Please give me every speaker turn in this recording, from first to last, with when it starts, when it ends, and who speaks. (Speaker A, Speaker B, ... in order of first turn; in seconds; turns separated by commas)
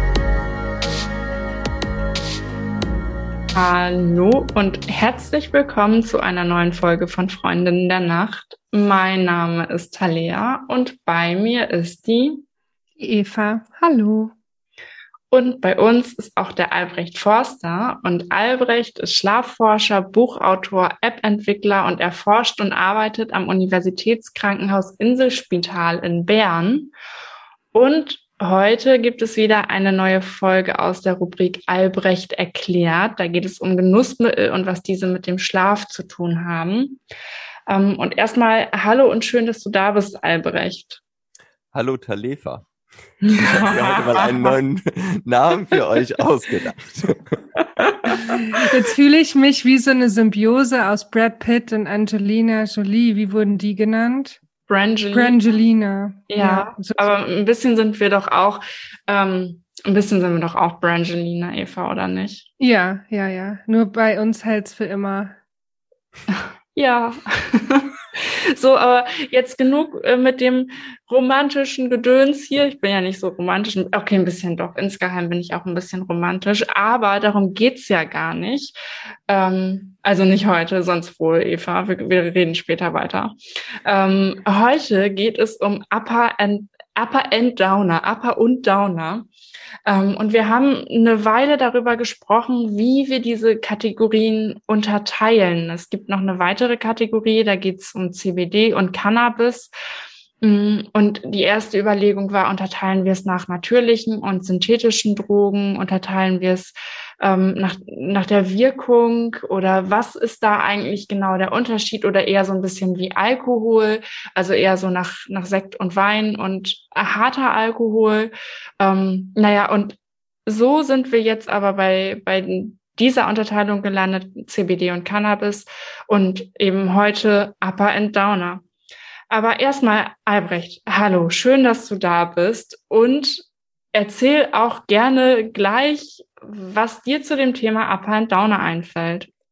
Speaker A: 3.5-12.4, Speaker B: 13.0-14.3, Speaker A: 15.3-26.9, Speaker A: 27.7-37.0, Speaker A: 37.7-41.0, Speaker C: 41.7-42.7, Speaker A: 43.2-44.6, Speaker C: 43.3-47.9, Speaker A: 47.8-48.2, Speaker B: 48.2-54.4, Speaker A: 54.7-55.4, Speaker B: 55.1-57.1, Speaker A: 56.3-62.5, Speaker B: 62.6-65.4, Speaker A: 66.3-78.8, Speaker A: 79.3-83.3, Speaker A: 83.8-89.3, Speaker A: 89.9-99.7, Speaker A: 100.4-128.6, Speaker A: 129.3-139.3